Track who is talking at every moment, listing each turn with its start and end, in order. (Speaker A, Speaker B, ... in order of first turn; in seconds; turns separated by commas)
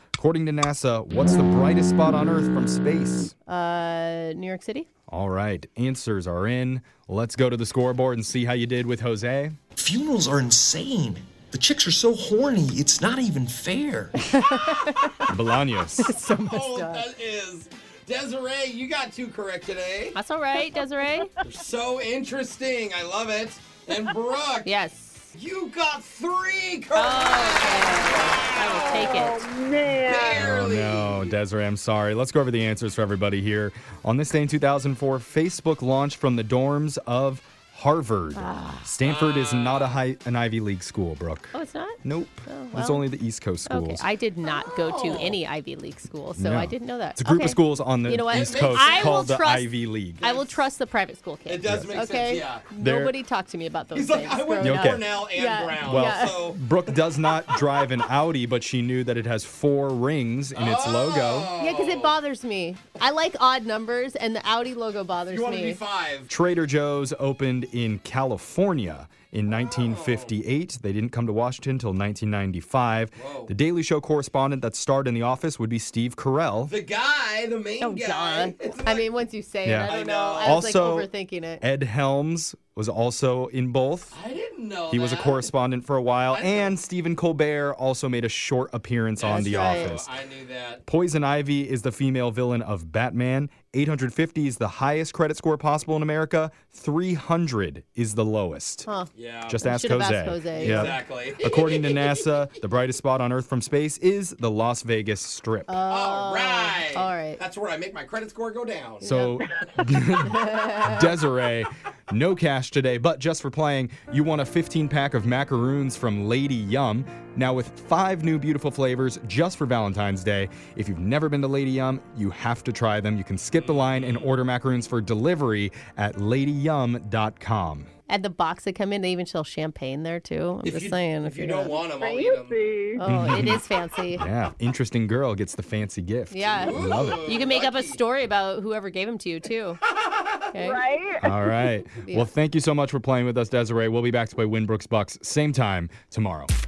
Speaker A: 0.1-3.3, Speaker B: 3.5-4.9, Speaker A: 5.1-9.6, Speaker C: 9.8-14.4, Speaker B: 14.4-15.1, Speaker A: 15.3-16.2, Speaker B: 16.0-17.1, Speaker D: 16.3-20.2, Speaker B: 20.1-21.3, Speaker D: 21.4-24.7, Speaker B: 24.6-25.3, Speaker D: 25.3-28.7, Speaker B: 26.9-29.4, Speaker E: 28.7-30.5, Speaker D: 30.0-31.3, Speaker A: 30.3-44.0, Speaker B: 38.4-38.9, Speaker D: 39.0-40.0, Speaker B: 41.5-43.1, Speaker B: 43.7-56.5, Speaker D: 44.5-45.4, Speaker A: 46.4-50.2, Speaker D: 48.3-49.3, Speaker D: 50.2-50.7, Speaker D: 51.5-52.6, Speaker A: 51.6-51.9, Speaker A: 52.8-53.2, Speaker D: 53.9-56.8, Speaker A: 54.6-55.1, Speaker A: 55.8-61.5, Speaker D: 60.5-62.2, Speaker B: 61.6-65.8, Speaker D: 65.3-66.3, Speaker A: 66.3-76.8, Speaker D: 69.7-70.3, Speaker D: 73.2-73.5, Speaker D: 76.7-79.1, Speaker B: 77.8-81.6, Speaker A: 79.6-84.1, Speaker D: 79.8-80.6, Speaker D: 84.1-85.5, Speaker A: 84.9-90.1, Speaker D: 86.3-86.7, Speaker D: 89.2-90.8, Speaker B: 89.3-89.9, Speaker A: 90.9-98.9, Speaker D: 99.2-99.6, Speaker A: 99.5-105.8, Speaker B: 99.6-100.9, Speaker D: 100.5-102.4, Speaker B: 105.7-107.4, Speaker D: 105.9-109.1, Speaker A: 109.0-127.9, Speaker B: 109.0-109.4, Speaker B: 110.3-111.0, Speaker D: 123.5-124.3, Speaker B: 128.1-131.8, Speaker D: 130.6-132.6, Speaker E: 132.0-133.0, Speaker B: 133.0-134.2, Speaker A: 133.0-133.6, Speaker A: 134.2-137.3, Speaker B: 136.3-139.8, Speaker D: 136.5-138.0, Speaker B: 140.5-140.8, Speaker E: 140.6-141.3, Speaker A: 141.2-146.5, Speaker B: 142.0-142.3